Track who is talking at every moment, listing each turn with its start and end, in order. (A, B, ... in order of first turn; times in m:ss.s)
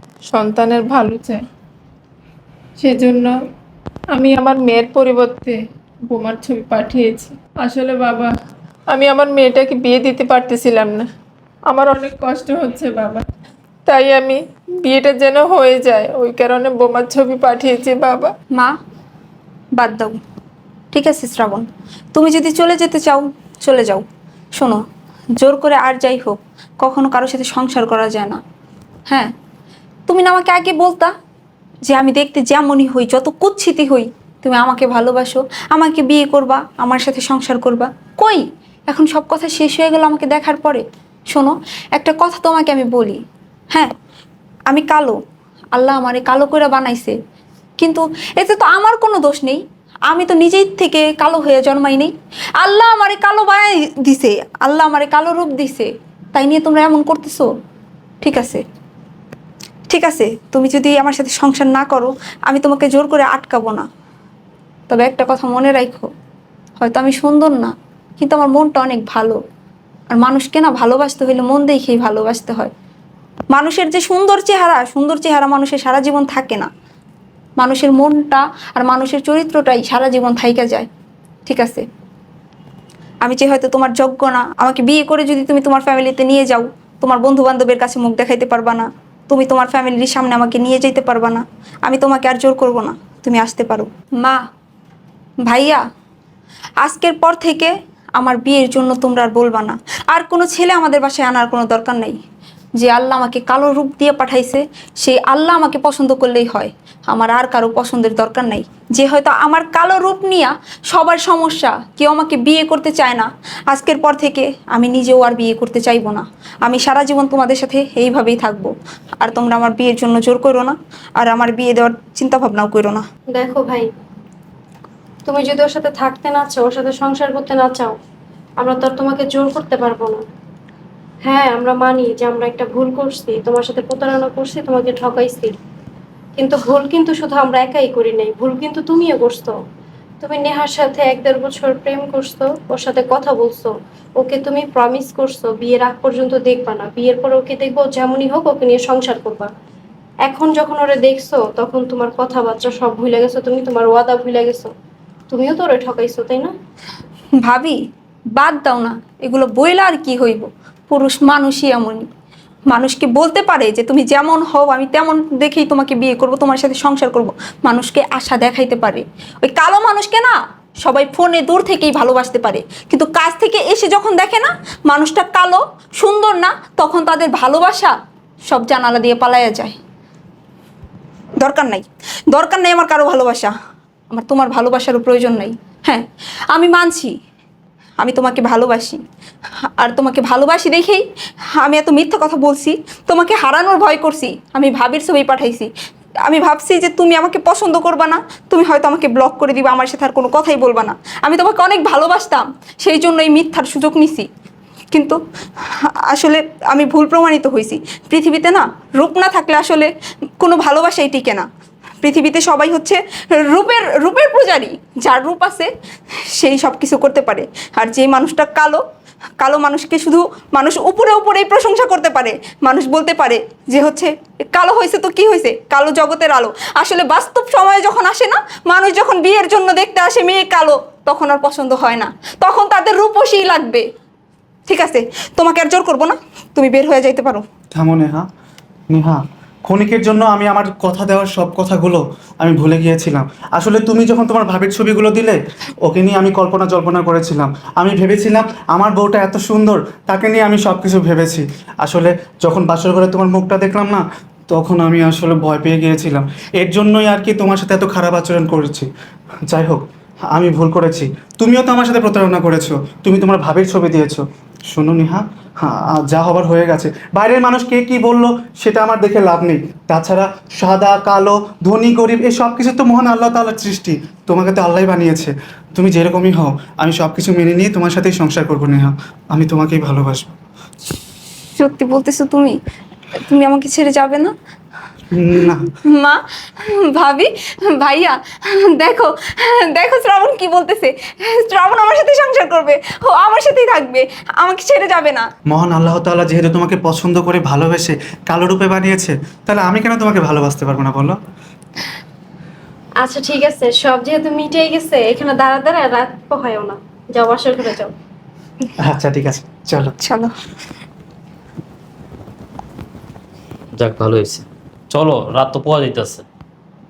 0:00.3-0:01.4 A
0:02.8-0:03.3 A
0:04.1-0:08.3 A
0:08.9-0:11.1 A
0:11.7-0:13.2 A
0:13.8-0:18.3 A
0:19.8-0:20.2 B
0:20.9-0:24.0 B
0:25.4-0:28.4 B
0:30.1-0:31.1 B
0:31.9-0:43.2 B
0:44.7-0:45.2 B
0:45.7-0:47.2 B
0:47.8-0:57.5 B
0:58.2-0:58.6 B
0:59.9-1:03.8 B
1:04.9-1:06.1 B
1:06.8-1:09.4 B
1:10.1-1:12.7 B
1:13.5-1:16.7 B
1:17.6-1:20.9 B
1:21.4-1:21.8 B
1:23.2-1:34.4 B
1:35.4-1:35.8 B
1:36.8-1:42.2 B
1:42.8-2:03.0 B
2:03.3-2:03.9 C
2:05.2-2:08.0 C
2:08.6-2:10.2 C
2:11.2-2:15.5 C
2:16.4-2:19.6 C
2:20.2-2:29.5 C
2:30.2-2:34.7 C
2:35.3-2:36.5 C
2:37.4-2:37.8 B
2:38.4-2:42.0 B
2:42.7-2:57.9 B
2:58.5-2:59.8 B
3:01.4-3:03.5 B
3:04.1-3:07.1 B
3:08.0-3:09.0 B
3:09.8-3:15.7 B
3:16.2-3:24.2 B
3:24.9-3:25.2 B
3:26.1-3:31.4 B
3:32.0-3:35.7 B
3:36.3-3:38.8 B
3:39.4-3:53.8 B
3:54.7-3:57.4 B
3:57.7-3:58.3 D
3:58.9-4:18.9 D
4:19.5-4:40.3 D
4:41.6-4:42.6 B
4:43.2-4:44.3 B
4:45.1-4:45.7 D
4:45.9-4:55.3 B
4:55.5-5:01.2 D
5:03.0-5:07.9 C
5:08.8-5:09.9 D
5:10.0-5:10.3 B
5:13.8-5:16.2 E